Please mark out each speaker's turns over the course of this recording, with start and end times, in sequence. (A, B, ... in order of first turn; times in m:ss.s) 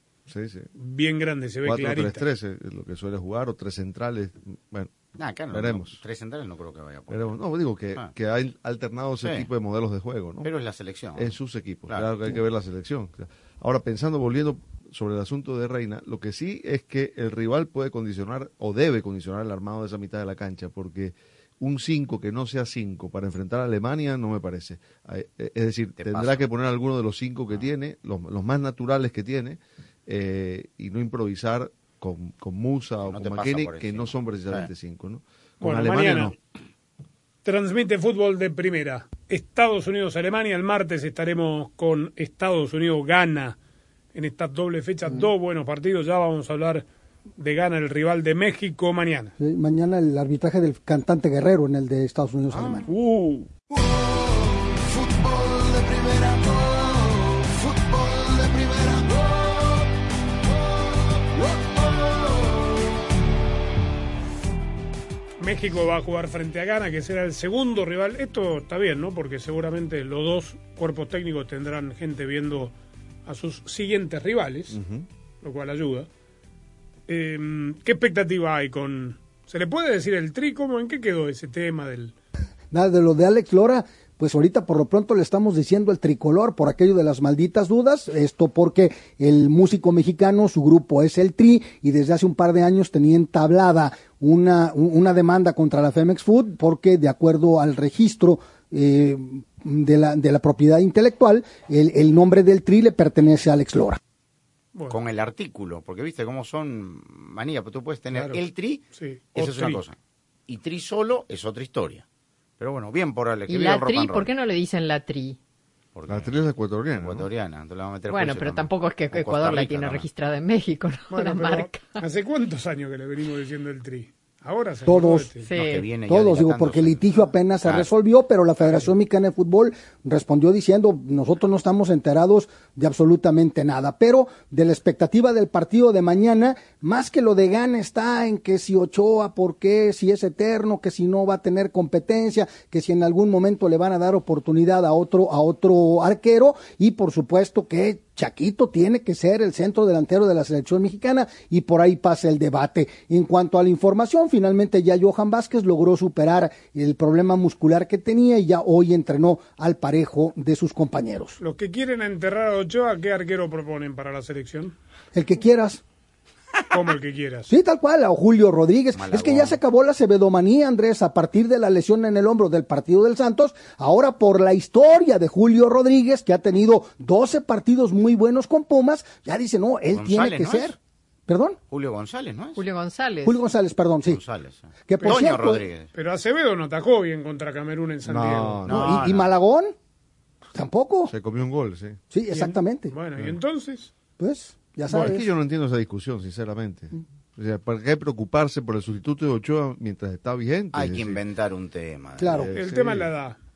0:00.3-0:00.7 A
0:00.8-0:02.2 B
0:01.6-0:04.9 A
0:05.2-0:07.4 C
0:05.5-0:06.0 A
0:07.1-0:10.5 A
0:09.2-0:09.5 C
0:10.4-0:11.4 C
0:11.2-0:36.4 A
0:11.9-0:12.3 C
0:26.0-0:26.5 C
0:33.0-0:34.7 C
0:35.6-0:36.3 B
0:37.4-0:43.6 B
0:44.1-0:46.8 B
0:47.4-0:49.3 B
0:49.4-0:52.9 D
0:52.5-0:52.8 C
0:52.9-0:53.5 B
0:53.7-0:59.9 E
1:01.2-1:02.8 E
1:05.4-1:12.7 B
1:13.3-1:14.8 B
1:14.7-1:15.1 A
1:15.4-1:16.1 B
1:17.1-1:22.2 B
1:22.7-1:44.0 D
1:44.9-1:48.8 C
1:48.1-1:48.4 B
1:48.9-1:49.8 B
1:49.4-1:50.0 C
1:50.5-1:52.0 C
1:52.6-1:54.3 C
1:53.5-1:55.4 F
1:56.0-1:56.4 C
1:56.1-1:57.3 A
1:57.0-2:00.1 C
1:58.1-2:02.0 F
2:01.1-2:05.5 B
2:04.9-2:05.3 D
2:05.4-2:05.9 F
2:05.6-2:07.1 C
2:06.1-2:41.4 D
2:41.4-2:44.8 B
2:45.1-2:45.8 D
2:46.7-2:47.5 B
2:47.5-3:00.8 D
2:49.0-2:49.6 C
2:59.9-3:00.8 C
3:01.3-3:01.6 D
3:01.7-3:02.6 C
3:02.6-3:03.4 F
3:03.2-3:04.2 D
3:04.0-3:05.9 C
3:04.9-3:05.6 D
3:05.9-3:08.6 B
3:08.0-3:09.0 A
3:08.7-3:09.3 C
3:08.7-3:09.7 D
3:10.5-3:11.1 D
3:11.1-3:12.0 A
3:12.1-3:12.9 D
3:12.3-3:13.9 B
3:14.2-3:15.3 D
3:14.9-3:21.2 A
3:20.7-3:22.5 C
3:22.2-3:22.5 D
3:22.2-3:23.1 A
3:22.5-3:23.4 B